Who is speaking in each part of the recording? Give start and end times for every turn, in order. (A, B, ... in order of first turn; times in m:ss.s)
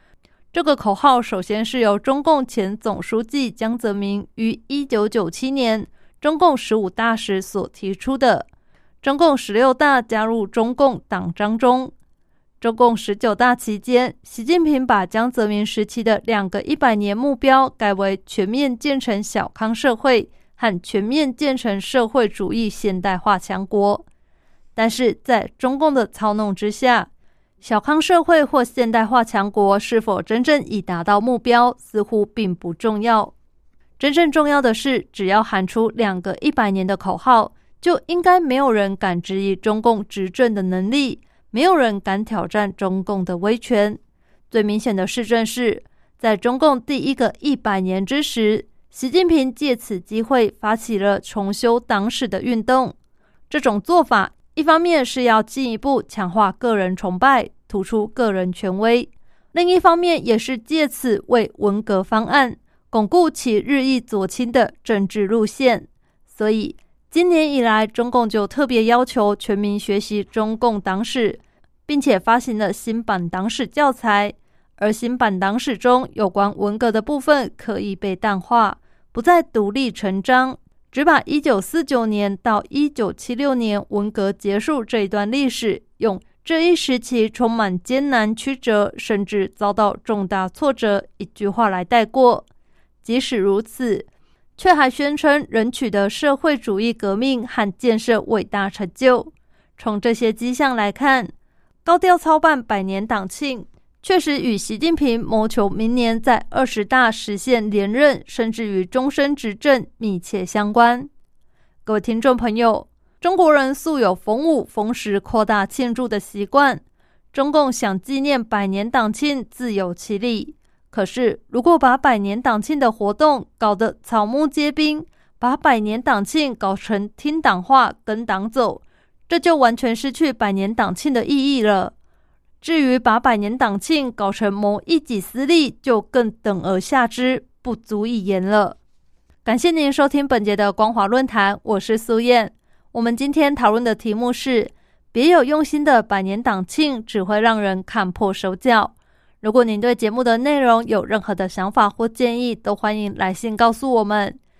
0:00.5-0:08.5 A
0:09.0-0:11.9 A
0:12.6-0:24.0 A
0:24.8-0:27.1 A
0:27.6-0:33.3 A
0:34.0-0:44.0 A
0:44.5-0:52.9 A
0:53.5-1:32.5 A
1:33.0-1:41.3 A
1:41.8-1:51.1 A
1:51.8-1:56.8 A
1:57.3-2:11.9 A
2:12.6-2:18.8 A
2:19.4-2:34.4 A